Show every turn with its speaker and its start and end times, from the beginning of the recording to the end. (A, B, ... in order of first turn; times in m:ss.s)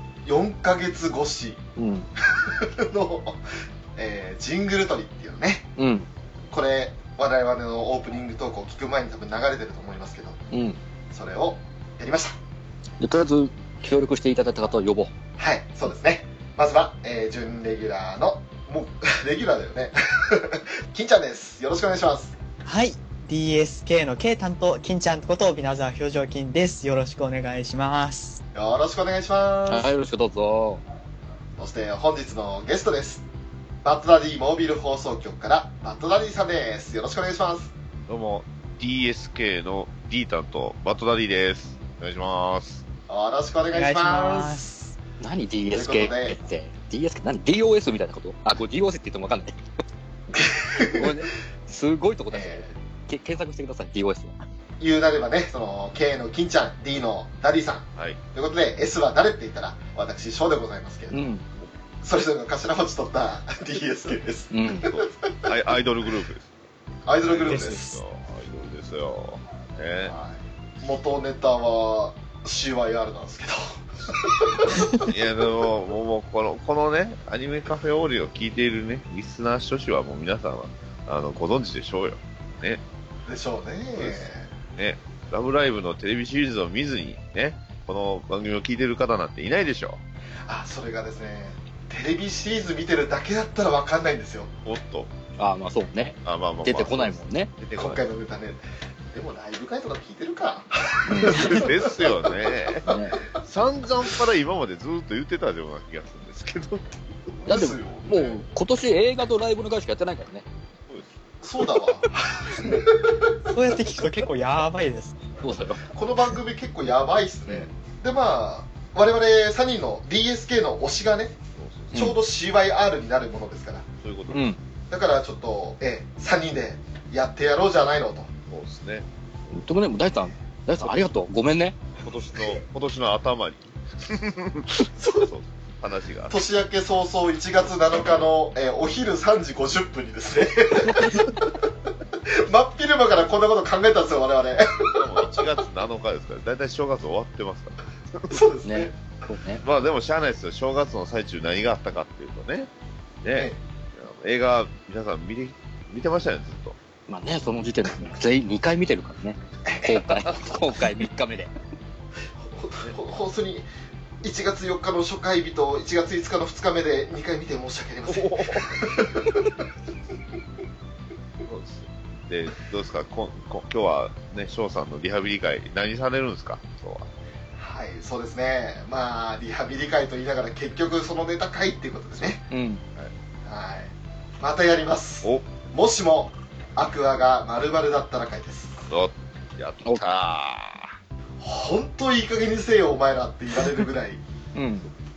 0:00.2-0:01.6 A
0:01.8-0:02.1 B
0:02.2-0:03.4 A
0:04.0-0:05.7 A
0:05.8-0:06.1 B
0:06.5-0:10.4 A
0:10.5-0:10.8 B
0:11.1-0:12.4 A
0:13.0-0:15.1 B
0:15.4-0:22.4 A
0:22.6-0:28.4 C
0:28.5-0:29.9 A
0:29.7-0:30.8 B
0:31.6-0:33.2 A
0:33.8-0:37.7 A
0:38.1-0:42.8 D
0:43.1-0:44.8 A
0:43.7-0:44.7 C
0:45.2-0:49.6 B
0:45.7-0:46.4 A
0:50.3-0:51.1 A
0:50.8-0:54.4 B
0:52.3-0:52.7 A
0:54.8-1:01.3 A
1:01.1-1:01.4 B
1:02.0-1:05.6 A
1:04.5-1:04.9 B
1:04.8-1:06.6 D
1:07.1-1:08.0 A
1:07.2-1:10.2 D
1:07.5-1:08.0 C
1:10.0-1:15.1 A
1:15.0-1:22.8 D
1:23.3-1:24.5 A
1:24.0-1:30.0 D
1:30.5-1:34.5 A
1:34.6-1:35.1 D
1:35.4-1:37.5 B
1:36.2-1:38.0 D
1:37.8-1:38.6 A
1:39.1-1:42.8 A
1:41.1-1:41.7 B
1:41.2-1:47.5 D
1:42.9-1:43.2 B
1:47.4-1:48.4 A
1:47.5-1:50.5 B
1:51.4-1:53.3 A
1:53.5-1:55.2 C
1:55.4-1:55.8 B
1:55.9-2:01.4 A
1:57.5-1:57.7 B
2:01.6-2:02.0 D
2:01.9-2:03.8 A
2:04.0-2:04.4 D
2:04.3-2:04.6 B
2:04.9-2:08.3 A
2:08.5-2:09.1 D
2:09.5-2:11.8 B
2:12.0-2:16.4 D
2:15.0-2:15.3 A
2:16.3-2:21.6 A
2:22.3-2:25.1 A
2:24.9-2:28.4 D
2:28.3-2:29.0 A
2:28.6-2:29.6 B
2:29.6-2:32.7 D
2:33.2-2:36.8 D
2:33.3-2:33.6 A
2:37.1-2:41.5 B
2:39.7-2:40.0 A
2:42.5-2:43.7 A
2:44.2-2:49.5 A
2:48.1-2:48.9 D
2:51.4-2:57.1 D
2:57.6-3:02.5 A
3:02.5-3:02.8 B
3:03.5-3:08.9 A
3:05.2-3:05.5 D
3:08.9-3:11.0 D
3:11.4-3:14.2 A
3:14.6-3:14.9 B